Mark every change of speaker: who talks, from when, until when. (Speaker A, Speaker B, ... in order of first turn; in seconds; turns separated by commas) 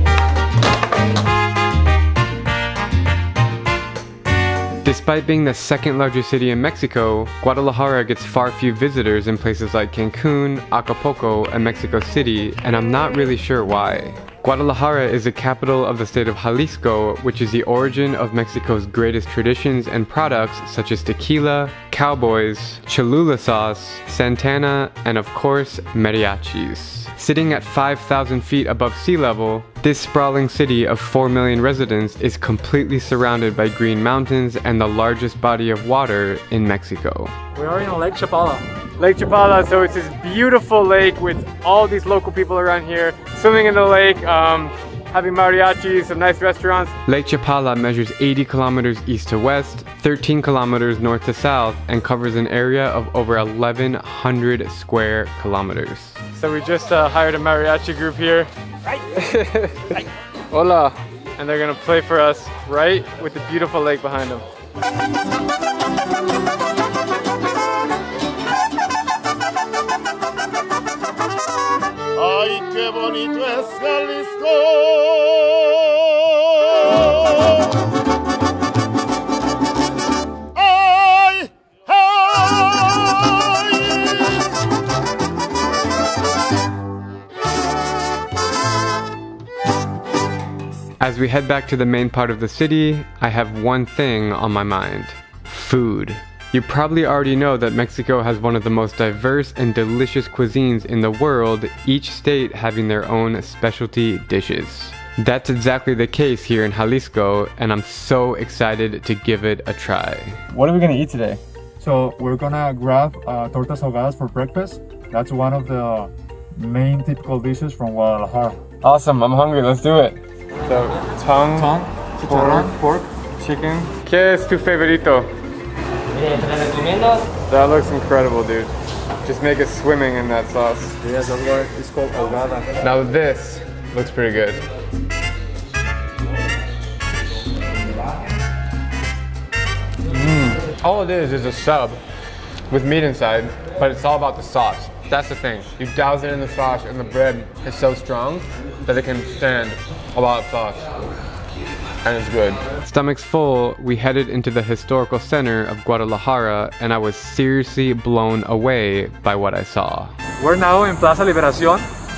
Speaker A: 4.8-37.3, Speaker B: 37.5-38.6, Speaker A: 39.0-64.4, Speaker A: 91.0-111.4, Speaker B: 111.8-118.6, Speaker A: 118.8-125.3, Speaker B: 121.6-122.9, Speaker A: 127.5-128.7, Speaker A: 129.2-131.0, Speaker B: 131.0-132.7, Speaker A: 132.8-134.6, Speaker A: 140.1-142.0, Speaker A: 142.7-150.9, Speaker A: 152.0-160.1, Speaker B: 160.4-161.9